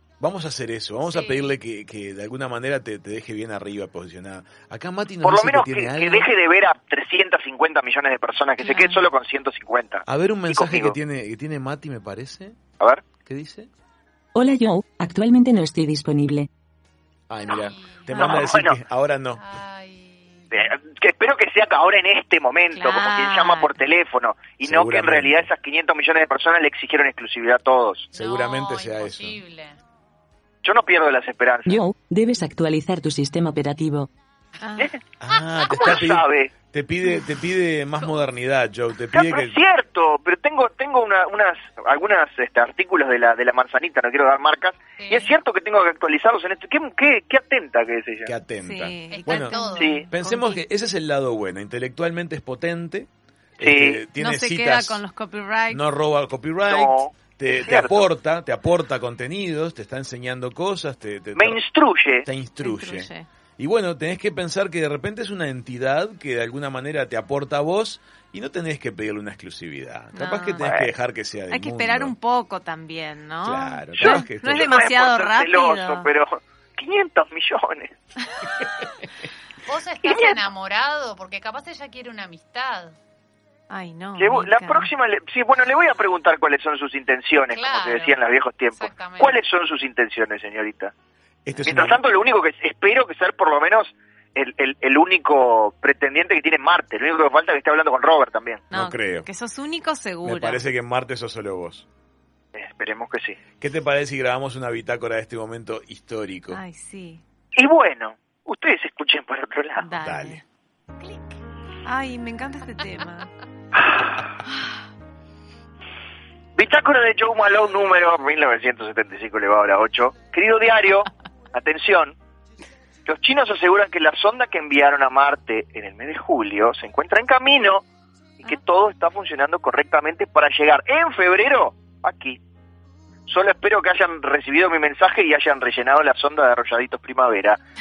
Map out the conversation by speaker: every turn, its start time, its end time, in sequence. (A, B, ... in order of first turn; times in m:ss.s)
0:00.2-0:06.3 A
0:01.1-0:01.5 B
0:05.2-0:11.0 C
0:08.6-0:09.0 D
0:10.1-0:12.6 A
0:12.8-0:13.0 C
0:13.2-0:13.7 A
0:14.3-0:16.5 E
0:17.3-0:19.4 A
0:17.5-0:18.3 B
0:18.1-0:18.4 D
0:18.2-0:18.8 C
0:19.4-0:20.6 B
0:20.5-0:28.1 C
0:22.7-0:23.7 D
0:24.6-0:25.5 A
0:28.1-0:29.8 B
0:28.2-0:29.4 A
0:30.6-0:31.8 C
0:31.6-0:34.1 E
0:34.6-0:34.9 D
0:35.2-0:39.6 A
0:35.6-0:36.5 C
0:39.1-0:48.3 C
0:45.0-0:45.3 B
0:48.2-0:49.6 A
0:48.6-0:50.6 D
0:49.1-0:50.0 B
0:49.8-0:50.1 C
0:50.1-0:55.0 A
0:53.6-0:54.0 C
0:54.2-0:55.8 D
0:55.7-1:01.6 A
0:56.7-0:58.0 C
1:01.3-1:02.3 C
1:02.2-1:12.1 A
1:02.6-1:03.3 D
1:10.1-1:10.9 D
1:11.5-1:16.1 D
1:13.4-1:14.7 A
1:14.0-1:17.9 C
1:19.6-1:23.0 B
1:20.0-1:20.4 C
1:23.7-1:24.9 D
1:24.2-1:30.9 C
1:27.5-1:28.2 B
1:28.7-1:29.4 B
1:31.4-1:32.0 A
1:31.6-1:38.6 C
1:38.7-1:39.3 A
1:38.7-1:40.6 D
1:40.2-1:41.8 A
1:42.5-1:43.4 C
1:43.6-1:46.6 A
1:46.5-1:47.2 D
1:47.6-1:49.9 C
1:49.8-1:50.4 D
1:50.0-1:50.4 A
1:51.0-1:53.3 D
1:53.8-1:54.2 C
1:56.6-2:02.2 C
2:03.0-2:07.8 C
2:08.4-2:12.4 C
2:13.3-2:17.6 C